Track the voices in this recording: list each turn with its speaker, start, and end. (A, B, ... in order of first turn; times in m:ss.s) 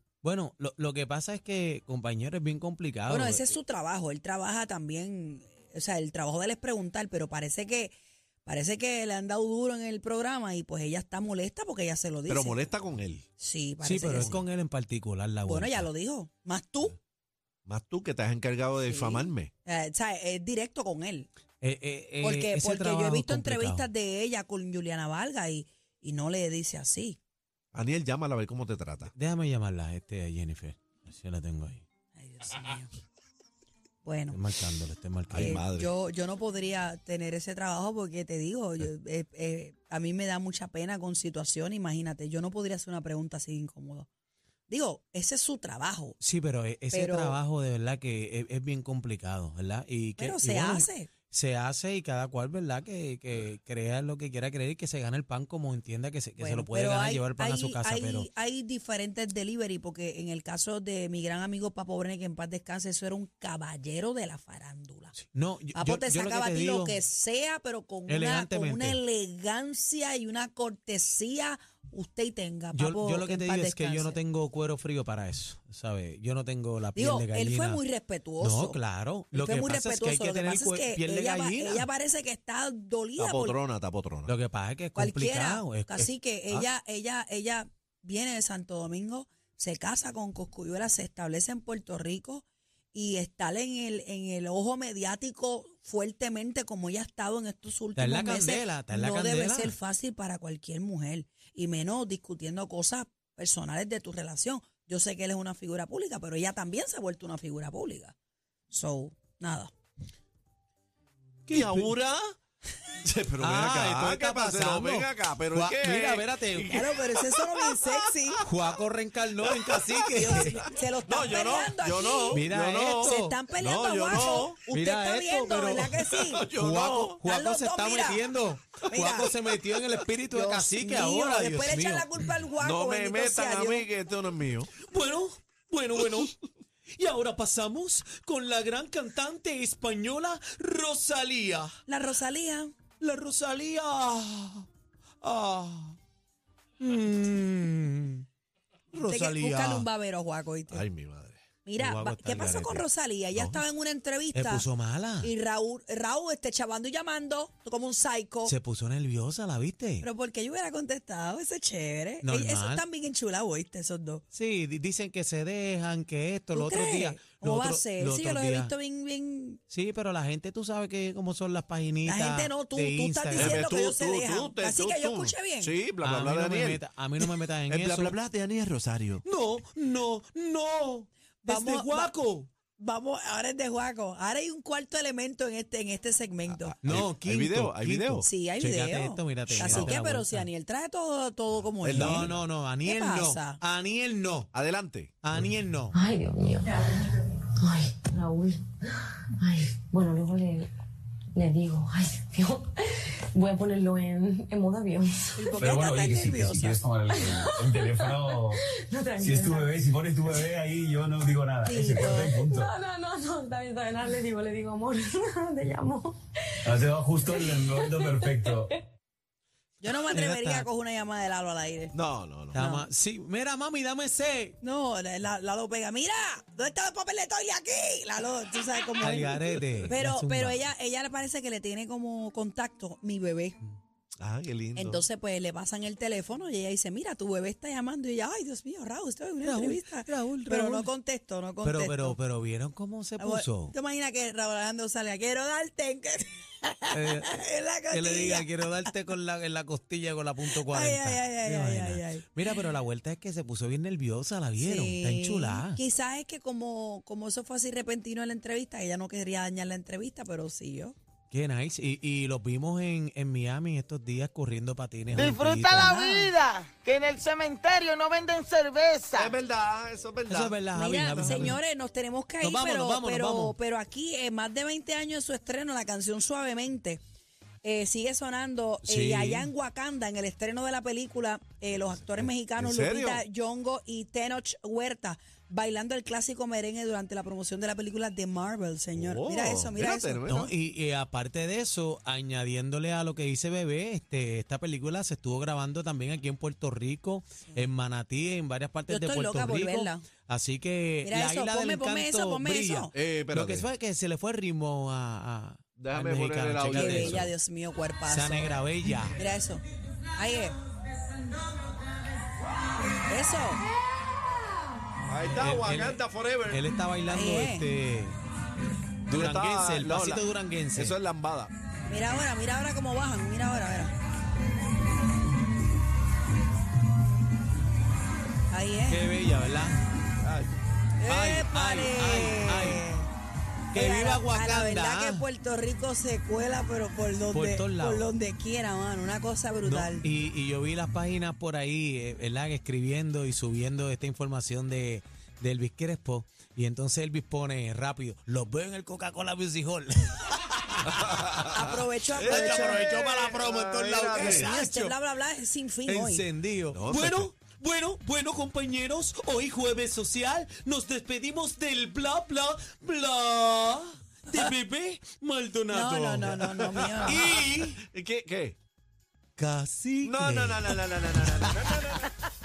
0:00.2-0:03.6 A
0:03.1-0:07.9 B
0:08.4-0:12.6 B
0:12.3-0:13.3 C
0:13.4-0:14.4 B
0:13.8-0:15.9 A
0:15.5-0:17.0 B
0:17.7-0:19.5 C
0:18.9-0:21.3 B
0:21.6-0:23.9 A
0:22.2-0:27.2 B
0:27.7-0:29.1 C
0:29.1-0:31.8 A
0:32.2-0:32.9 B
0:34.0-0:34.4 B
0:34.3-0:35.6 A
0:35.3-0:35.9 C
0:35.4-0:44.1 B
0:44.7-0:46.2 B
0:46.2-0:58.3 A
0:46.9-0:47.4 B
0:50.2-0:51.1 B
0:56.4-1:05.1 B
1:05.2-1:07.0 A
1:05.8-1:14.2 B
1:08.1-1:09.0 A
1:12.7-1:17.8 A
1:17.0-1:18.8 B
1:18.4-1:21.9 A
1:19.3-1:23.6 B
1:23.2-1:24.3 C
1:24.3-1:26.1 A
1:25.0-1:48.1 B
1:38.0-1:39.8 A
1:48.7-1:49.7 B
1:51.5-1:52.0 A
1:51.5-1:52.3 C
1:53.0-1:58.0 C
1:53.4-1:56.8 A
1:56.7-1:58.4 B
1:58.4-2:00.6 A
1:59.4-2:04.6 C
2:00.1-2:02.4 B
2:02.3-2:03.4 A
2:03.0-2:06.5 B
2:04.7-2:12.1 A
2:06.3-2:07.2 C
2:07.2-2:08.2 B
2:08.9-2:09.3 B
2:10.3-2:13.9 B
2:12.6-2:14.7 C
2:14.8-2:16.4 A
2:17.0-2:21.8 A
2:21.9-2:22.7 B
2:23.0-2:24.7 A
2:25.2-2:26.0 A
2:26.8-2:28.2 A
2:28.9-2:29.9 A
2:29.0-2:30.8 B
2:30.7-2:31.4 C
2:31.6-2:34.6 B
2:31.8-2:32.9 A
2:33.3-2:33.6 C
2:34.3-2:35.3 A
2:35.2-2:38.5 B
2:38.5-2:40.1 A
2:40.0-2:44.2 B
2:42.2-2:42.8 A
2:44.3-2:48.7 A
2:46.5-2:49.6 B
2:49.7-2:53.6 A
2:52.1-2:55.7 B
2:53.4-2:59.2 C
2:56.0-2:58.2 A
2:59.2-3:02.5 A
3:01.4-3:02.1 B
3:02.8-3:06.8 B
3:06.5-3:08.3 C
3:06.8-3:10.5 A
3:08.2-3:12.3 B
3:09.5-3:09.9 C
3:11.8-3:12.4 C
3:11.9-3:14.5 A
3:12.8-3:13.6 B
3:14.5-3:15.5 C
3:15.2-3:15.9 A
3:15.9-3:18.7 D
3:19.4-3:20.7 D
3:21.4-3:25.9 D
3:25.4-3:26.8 B
3:25.6-3:28.6 E
3:27.1-3:30.5 D
3:29.2-3:32.7 E
3:31.6-3:32.4 B
3:32.1-3:38.8 D
3:36.7-3:38.7 E
3:39.8-3:41.9 B
3:40.1-3:40.7 A
3:41.9-3:42.6 C
3:42.5-3:44.6 A
3:42.5-3:42.9 B
3:44.6-3:53.6 B
3:49.0-3:50.6 A
3:54.2-3:55.0 C
3:54.8-4:02.2 B
3:59.4-4:00.9 A
4:01.6-4:03.8 A
4:03.2-4:08.6 B
4:06.9-4:15.8 A
4:10.5-4:12.3 B
4:14.6-4:21.0 B
4:21.3-4:26.0 A
4:25.1-4:29.4 F
4:25.7-4:26.3 B
4:29.2-4:31.5 C
4:30.3-4:31.6 A
4:30.8-4:37.0 B
4:32.4-4:33.6 A
4:37.6-4:50.4 B
4:38.8-4:39.5 A
4:42.6-4:43.2 C
4:49.0-4:50.5 C
4:50.3-5:07.3 A
4:58.9-5:00.0 B
5:01.0-5:02.9 B
5:02.9-5:03.7 C
5:05.8-5:07.3 C
5:06.7-5:08.6 B
5:08.1-5:09.2 A
5:09.2-5:09.6 B
5:10.2-5:10.6 B
5:13.1-5:13.6 B
5:15.1-5:16.6 C
5:15.3-5:18.2 A
5:17.1-5:17.7 B
5:19.1-5:21.0 A
5:19.1-5:21.5 C
5:21.9-5:23.9 B
5:28.5-5:29.0 B
5:28.9-5:29.8 A
5:30.2-5:30.6 C
5:31.0-5:33.1 B
5:31.1-5:32.9 A
5:33.7-5:35.3 A
5:33.8-5:40.0 B
5:37.3-5:38.1 A
5:39.6-5:51.4 A
5:50.8-5:54.5 C
5:51.5-5:52.9 B
5:52.2-5:54.9 A
5:54.2-5:56.2 B
5:55.9-6:07.8 A
5:56.7-5:57.3 C
6:05.7-6:07.2 B
6:06.8-6:08.6 C
6:09.4-6:10.8 A
6:10.0-6:12.1 C